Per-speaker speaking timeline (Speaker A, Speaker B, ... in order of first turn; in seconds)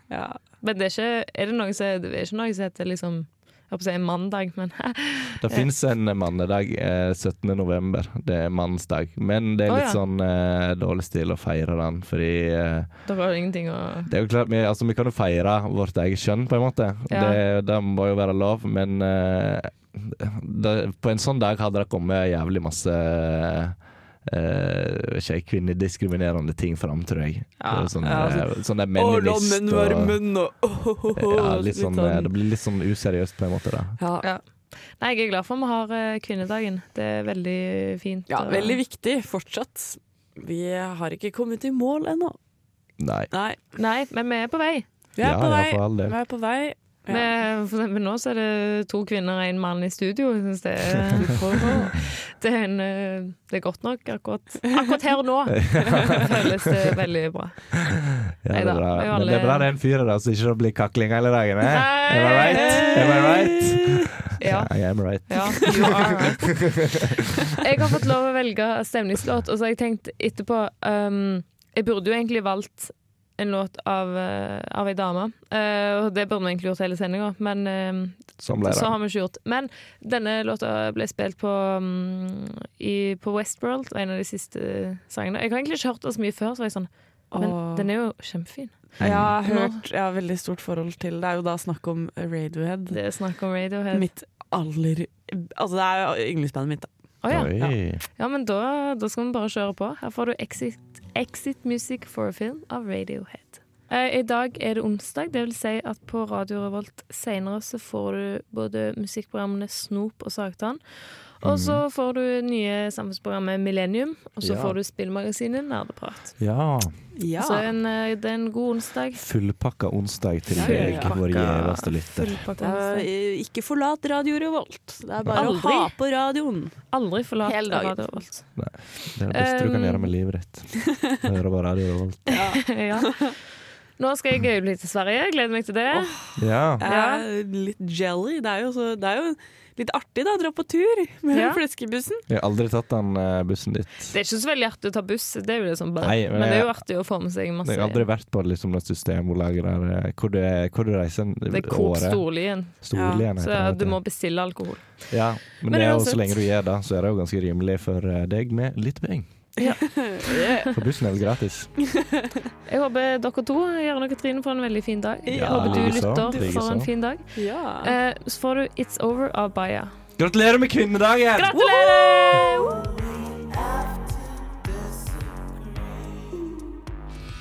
Speaker A: 0.1-0.4, 28.0-32.3, 34.0-34.2, 38.3-42.4, 43.3-43.6, 45.2-47.3, 51.2-51.9, 62.4-64.2, 87.3-87.9, 89.0-93.0, 93.9-96.9, 117.2-117.7, 120.6-121.2, 122.6-126.8, 127.4-128.2, 132.3-133.3, 135.9-142.2, 152.9-153.3, 159.6-160.7, 161.9-162.3, 165.2-166.5, 167.3-167.9, 171.5-173.9
Speaker B: 0.6-5.7, 9.7-10.0, 13.1-14.1, 17.1-17.4, 27.6-27.9, 35.0-38.8, 43.8-44.9, 47.1-57.6, 58.5-59.7, 61.6-63.3, 64.4-64.7, 65.3-66.6, 67.6-89.8, 92.9-94.1, 97.2-110.8, 111.4-116.3, 117.4-119.2, 120.6-123.1, 125.3-125.9, 126.9-128.4, 129.3-130.1, 132.5-133.3, 134.0-136.1, 136.8-137.2, 141.3-141.6, 144.1-148.0, 151.5-152.8, 153.3-154.8, 155.7-156.3, 159.6-160.7, 162.7-167.2, 167.8-169.9, 171.3-172.8
Speaker C: 5.4-12.9, 14.1-30.2, 31.1-34.0, 43.0-43.3, 45.2-46.2, 55.5-56.5, 57.7-67.3, 78.4-78.9, 89.0-89.3, 97.3-98.0, 111.4-111.8, 114.4-114.8, 116.4-116.9, 119.1-122.4, 125.2-125.5, 128.6-132.4, 136.4-136.8, 142.3-144.1, 146.0-146.8, 147.6-152.2, 152.8-154.0, 155.1-159.3, 160.7-161.7, 165.3-166.9, 170.2-171.5